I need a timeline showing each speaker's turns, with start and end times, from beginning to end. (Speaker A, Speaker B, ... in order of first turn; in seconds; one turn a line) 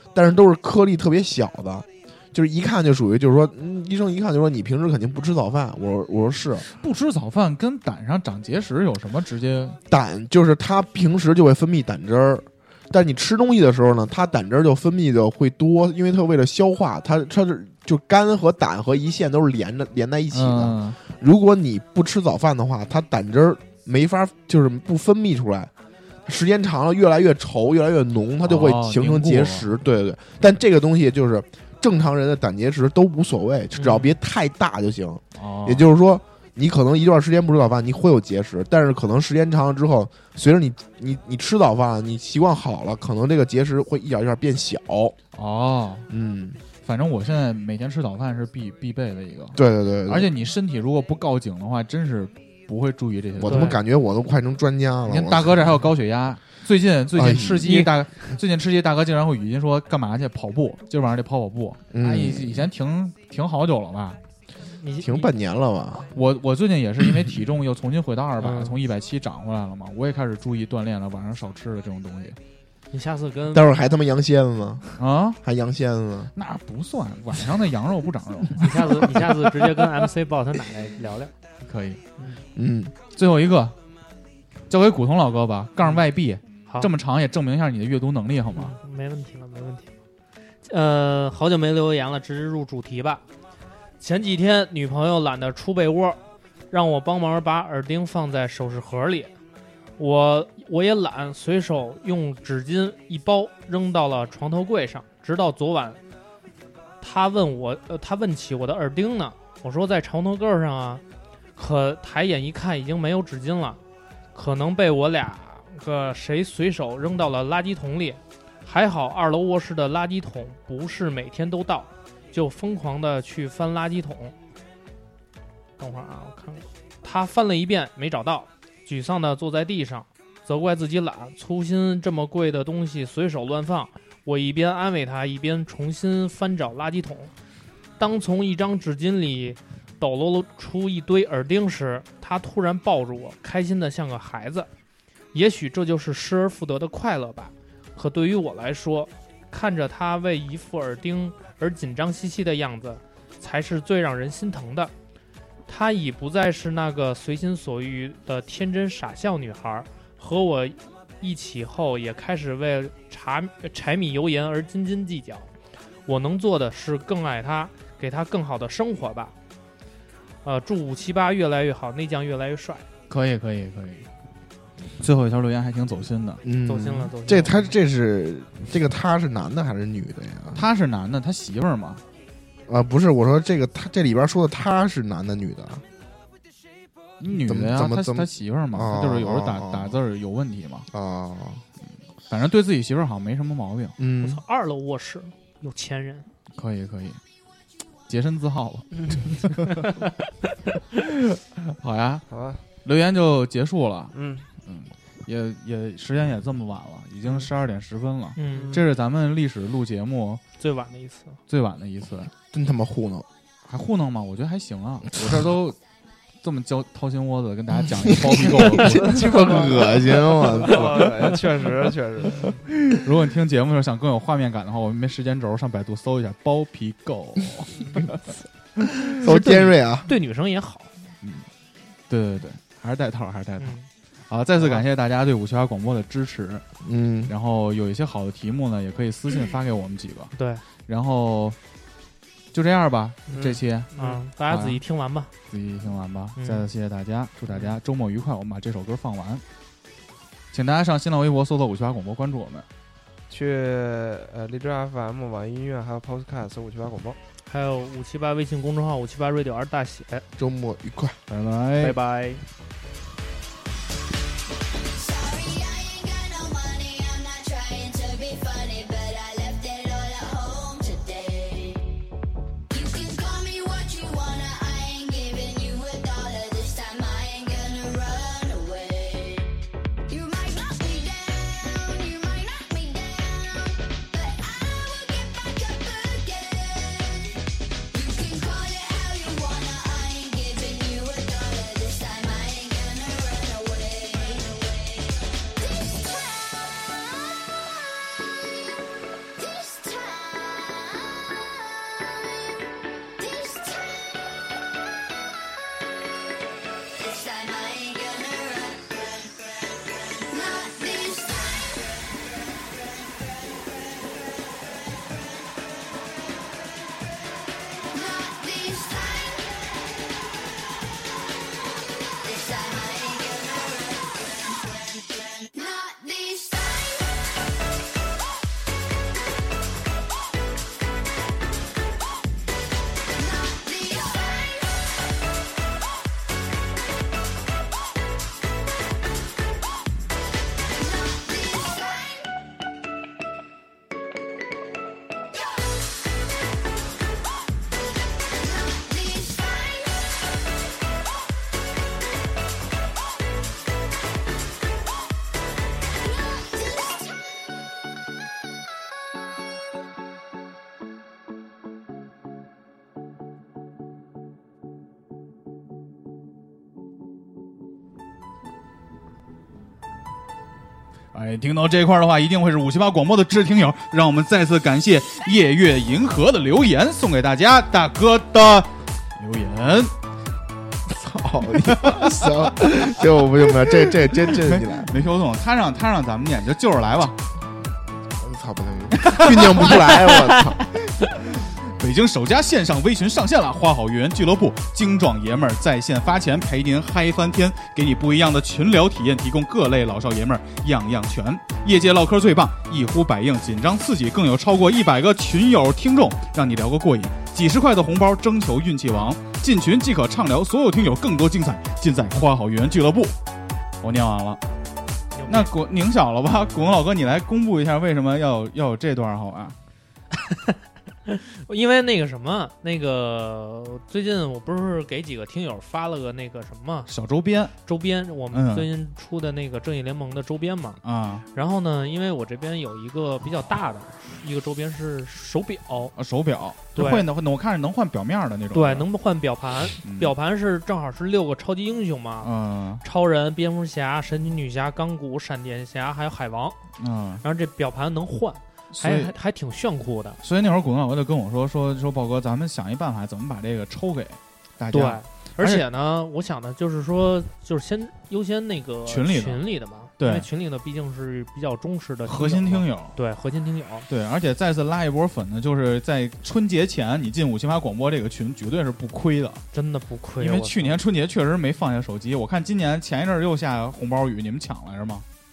Speaker A: 0.1-6.7
Speaker B: 6.7-9.8
Speaker A: 9.9-25.7
Speaker B: 20.3-21.0
Speaker A: 26.2-45.2
Speaker B: 28.4-29.7
Speaker C: 33.8-34.1
Speaker B: 35.3-35.9
Speaker B: 45.3-46.1
Speaker A: 46.1-46.6
Speaker B: 46.7-53.8
Speaker A: 49.5-50.3
Speaker A: 53.4-55.6
Speaker C: 53.5-53.8
Speaker B: 55.1-64.2
Speaker A: 57.1-57.8
Speaker A: 61.9-62.7
Speaker C: 64.7-65.3
Speaker A: 65.0-66.1
Speaker B: 66.1-72.4
Speaker C: 68.4-68.8
Speaker C: 72.9-73.8
Speaker A: 73.5-74.8
Speaker B: 75.0-75.4
Speaker A: 75.4-76.3
Speaker B: 76.3-79.1
Speaker C: 78.6-81.3
Speaker B: 81.6-82.0
Speaker A: 82.5-83.0
Speaker B: 83.0-83.7
Speaker B: 84.7-88.7
Speaker C: 88.5-89.9
Speaker C: 90.6-93.2
Speaker C: 94.0-96.2
Speaker C: 96.7-99.3
Speaker C: 100.0-106.0
Speaker C: 107.0-111.0
Speaker C: 111.6-113.8
Speaker C: 114.3-124.3
Speaker C: 125.8-137.3
Speaker C: 138.0-144.7
Speaker C: 145.3-154.9
Speaker C: 155.7-165.5
Speaker C: 166.1-169.3
Speaker C: 170.4-172.8
Speaker B: 173.1-174.1
Speaker B: 175.0-176.4
Speaker A: 176.4-180.6
Speaker C: 176.6-177.7
Speaker B: 180.5-182.0
Speaker A: 182.7-185.8
Speaker B: 187.2-190.9
Speaker A: 187.3-190.0
Speaker A: 190.9-191.6
Speaker B: 192.3-193.9
Speaker A: 194.0-194.4
Speaker C: 194.2-196.3
Speaker B: 196.5-197.2
Speaker B: 198.1-199.9
Speaker B: 201.0-202.2
Speaker D: 202.3-202.6
Speaker B: 202.8-204.1
Speaker D: 204.1-204.5
Speaker B: 204.6-210.4
Speaker C: 208.3-208.7
Speaker D: 208.5-208.9
Speaker C: 210.6-211.3
Speaker B: 211.5-212.3
Speaker A: 212.5-213.2
Speaker B: 213.7-215.8
Speaker B: 216.4-219.3
Speaker A: 218.0-221.1
Speaker D: 218.9-222.6
Speaker B: 222.8-228.1
Speaker A: 229.2-230.1
Speaker B: 229.2-229.5
Speaker C: 229.2-230.9
Speaker B: 232.1-233.8
Speaker C: 233.6-233.8
Speaker B: 234.3-236.6
Speaker A: 236.8-237.3
Speaker B: 237.3-240.3
Speaker C: 240.3-240.6
Speaker B: 240.8-241.6
Speaker B: 242.5-243.9
Speaker D: 243.3-244.2
Speaker C: 243.9-245.3
Speaker B: 244.4-244.8
Speaker B: 245.5-249.4
Speaker C: 246.4-246.7
Speaker B: 250.5-252.7
Speaker D: 253.3-257.2
Speaker C: 257.5-260.2
Speaker A: 260.4-261.2
Speaker B: 261.3-262.0
Speaker C: 261.8-262.4
Speaker E: 264.9-272.0
Speaker E: 272.7-279.6
Speaker E: 280.1-287.4
Speaker E: 287.9-297.5
Speaker E: 299.4-301.8
Speaker E: 303.2-304.5
Speaker E: 307.0-313.8
Speaker E: 317.9-320.1
Speaker E: 322.2-327.6
Speaker E: 333.1-335.2
Speaker E: 340.6-342.3
Speaker E: 348.2-350.7
Speaker E: 356.0-357.2
Speaker B: 371.1-379.9
Speaker A: 380.9-384.9
Speaker B: 381.7-382.4
Speaker B: 384.3-387.1
Speaker A: 388.1-390.6
Speaker B: 389.0-389.8
Speaker B: 391.4-413.1
Speaker B: 413.8-414.4
Speaker C: 415.1-415.5
Speaker B: 415.3-419.6
Speaker C: 421.1-426.9
Speaker B: 426.9-427.5
Speaker C: 427.6-430.8
Speaker B: 428.3-428.7
Speaker B: 430.8-431.2
Speaker C: 431.3-435.9
Speaker B: 435.9-438.9
Speaker C: 436.7-437.1
Speaker C: 438.5-442.3
Speaker B: 439.8-440.1
Speaker B: 442.2-442.8
Speaker C: 442.8-446.6
Speaker B: 446.8-447.2
Speaker C: 447.2-450.2
Speaker B: 448.7-449.1
Speaker B: 450.2-455.6
Speaker C: 454.7-463.9
Speaker B: 458.9-460.3
Speaker B: 462.1-463.0
Speaker B: 463.9-469.4
Speaker C: 469.5-470.8
Speaker B: 470.2-475.0